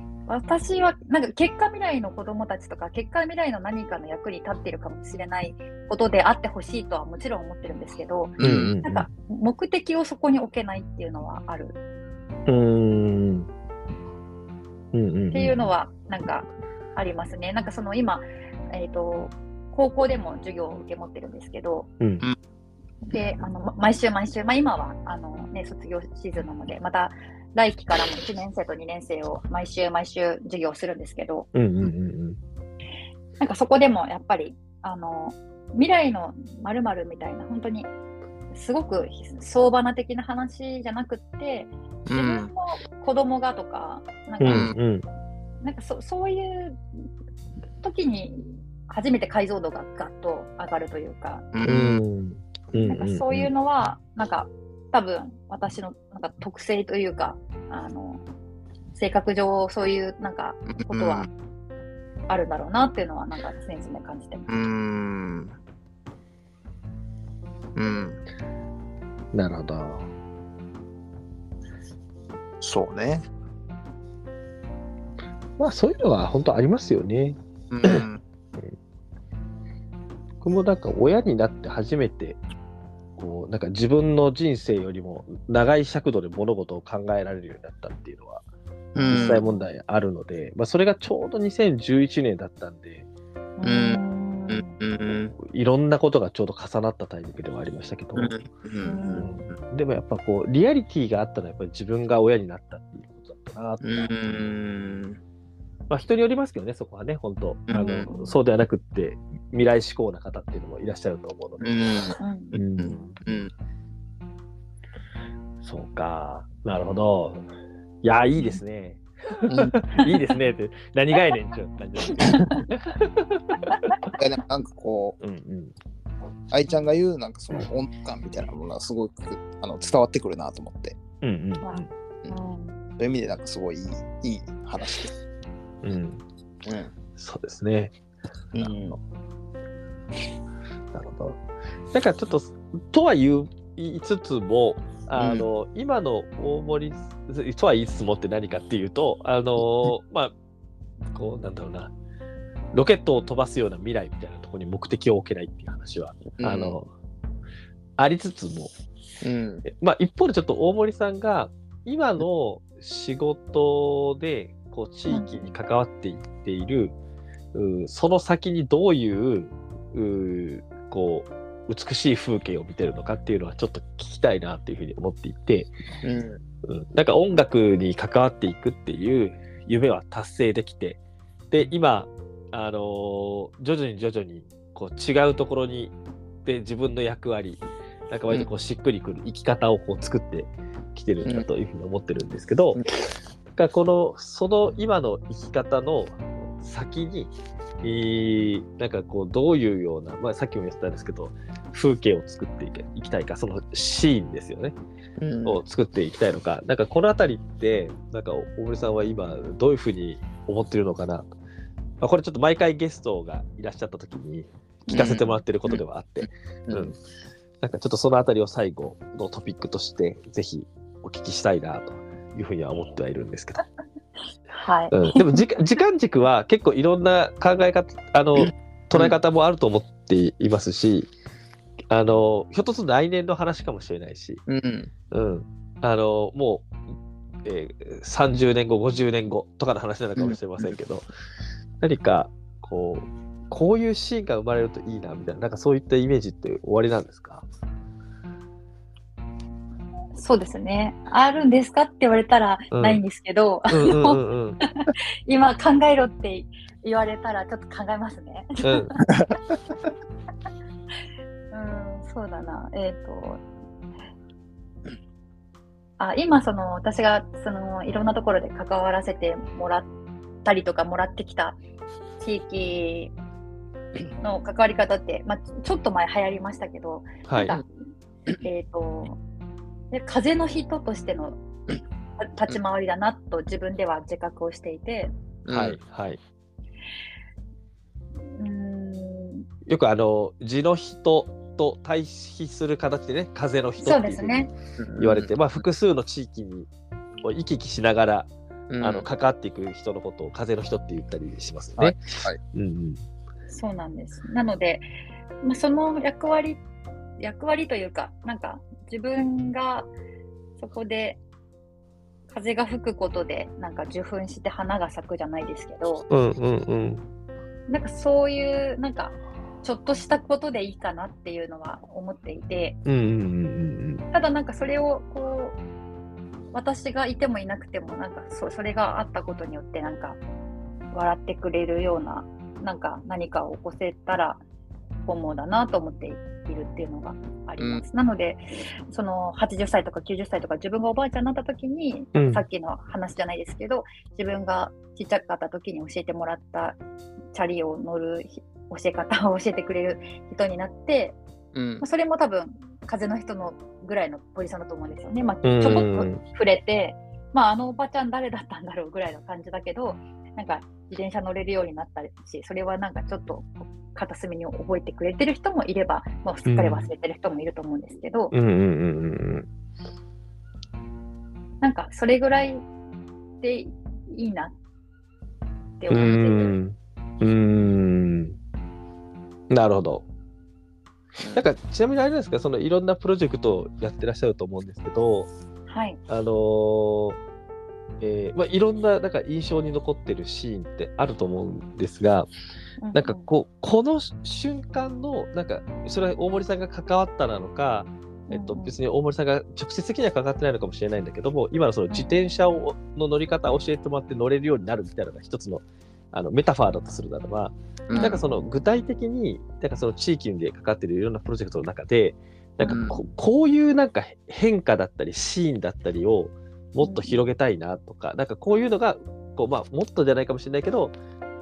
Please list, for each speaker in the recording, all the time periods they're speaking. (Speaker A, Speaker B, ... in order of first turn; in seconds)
Speaker A: 0.3-11.8, 15.3-21.9, 23.1-31.5, 33.4-37.9, 38.5-44.7, 45.6-47.1, 47.8-51.5, 52.9-58.2, 58.9-61.3, 62.3-64.5, 89.1-89.7, 93.6-94.7, 98.8-99.3, 107.7-108.4, 112.2-112.6, 122.2-122.6, 131.6-132.8, 165.1-165.4, 214.9-215.3, 224.6-225.4, 250.2-254.2, 254.8-259.0, 261.5-263.4, 266.0-269.9, 270.4-271.6, 272.2-273.1, 274.2-277.6, 278.4-279.2, 279.9-281.4, 282.2-285.1, 288.4-289.5, 293.8-294.5, 303.5-304.9, 305.4-306.6, 307.2-309.9, 310.6-311.2, 312.3-316.1, 317.7-322.8, 324.1-325.6, 326.5-330.2, 330.9-334.4, 335.1-346.8, 347.3-351.2, 351.8-368.3, 371.6-372.7, 373.4-374.6, 375.8-376.6, 385.7-386.0, 392.8-393.3, 398.3-398.8, 401.9-402.2, 407.9-408.4, 416.8-417.2
Speaker B: 8.4-8.8, 42.1-42.5, 44.5-44.7, 51.5-52.0, 60.8-61.3, 64.5-65.5, 67.8-68.2, 72.6-73.3, 77.7-78.2, 89.0-89.4, 93.6-95.3, 98.2-99.3, 103.8-105.2, 107.7-108.1, 111.6-112.2, 112.8-113.5, 119.5-119.7, 124.1-125.2, 126.5-131.0, 133.0-135.1, 136.7-136.9, 138.5-139.0, 145.2-145.5, 156.3-156.8, 159.2-159.6, 176.0-176.4, 205.2-205.6, 214.9-215.8, 216.7-216.9, 228.4-229.2, 234.5-234.9, 240.2-240.7, 285.5-285.8, 294.8-295.3, 298.7-299.1, 301.8-302.4, 337.6-337.8, 351.5-351.9, 381.2-381.5, 407.9-408.2, 412.7-413.0
Speaker C: 8.4-9.1, 12.5-13.5, 14.9-15.7, 22.0-22.3, 31.6-32.4, 44.4-45.1, 51.6-53.5, 69.3-70.1, 75.6-78.1, 80.4-82.4, 83.2-88.4, 89.0-93.0, 95.4-98.3, 99.2-104.3, 105.9-111.8, 112.5-113.2, 115.6-117.5, 118.0-124.1, 125.2-125.7, 131.2-131.9, 135.8-136.2, 137.2-137.9, 138.6-139.0, 140.9-141.4, 141.9-150.3, 151.1-151.9, 152.7-156.9, 158.0-158.7, 159.7-166.9, 167.5-175.7, 176.7-181.0, 181.5-185.9, 186.4-192.8, 193.6-204.8, 205.4-211.3, 212.0-217.0, 217.6-223.7, 224.9-231.1, 231.9-234.4, 235.1-236.7, 237.4-241.1, 241.8-247.5, 252.7-253.0, 253.7-254.6, 258.6-259.0, 277.3-277.6, 285.5-286.2, 289.7-296.7, 297.2-298.3, 298.8-302.0, 302.5-303.0, 316.1-317.0, 322.9-324.0, 342.1-342.4, 355.4-356.2, 366.5-366.9, 368.3-369.5, 375.9-378.4, 379.5-380.0, 381.3-385.3, 386.1-387.2, 388.0-392.3, 392.9-420.9